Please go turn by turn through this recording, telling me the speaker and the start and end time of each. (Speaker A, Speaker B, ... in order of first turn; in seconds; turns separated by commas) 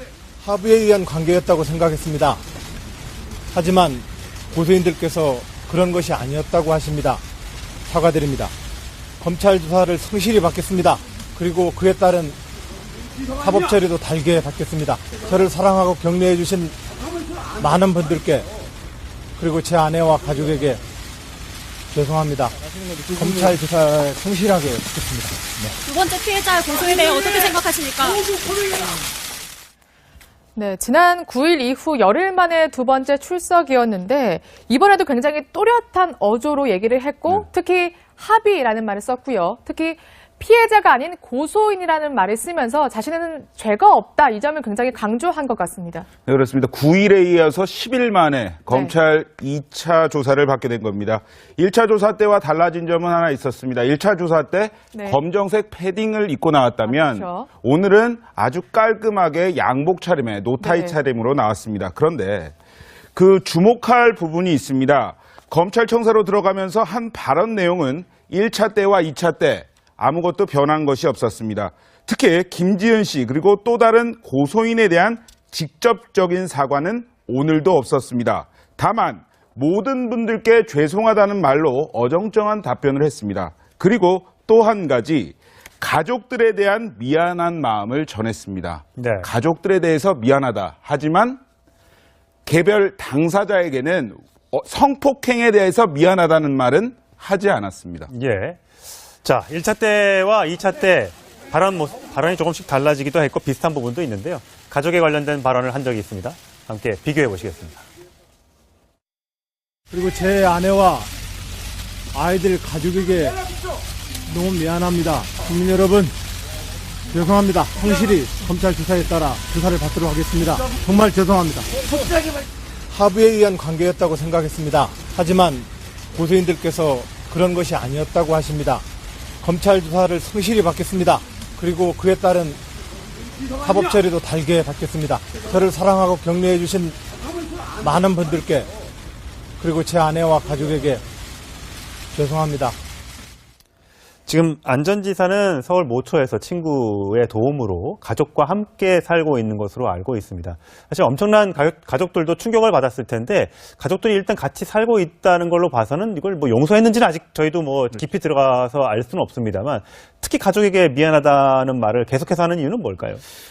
Speaker A: 0.4-2.4, Speaker A: 3.5-7.2, Speaker A: 7.9-8.5, Speaker A: 9.2-12.4, Speaker A: 13.4-16.8, Speaker A: 17.6-18.5, Speaker A: 19.4-20.8, Speaker A: 21.9-22.6, Speaker A: 23.1-25.8, Speaker B: 25.8-28.2, Speaker C: 30.6-46.1, Speaker D: 46.2-62.5, Speaker C: 54.9-55.2, Speaker C: 56.9-57.5, Speaker C: 60.6-61.0, Speaker D: 63.1-91.4, Speaker E: 89.0-89.3, Speaker D: 92.5-98.1, Speaker E: 98.1-98.6, Speaker E: 99.2-107.8, Speaker A: 109.9-111.1, Speaker A: 112.1-113.3, Speaker A: 114.3-116.1, Speaker A: 117.1-121.8, Speaker A: 122.9-128.8, Speaker A: 129.4-132.6, Speaker A: 133.6-137.0, Speaker A: 137.8-138.7, Speaker A: 139.6-141.0, Speaker A: 142.1-142.8, Speaker E: 144.3-163.2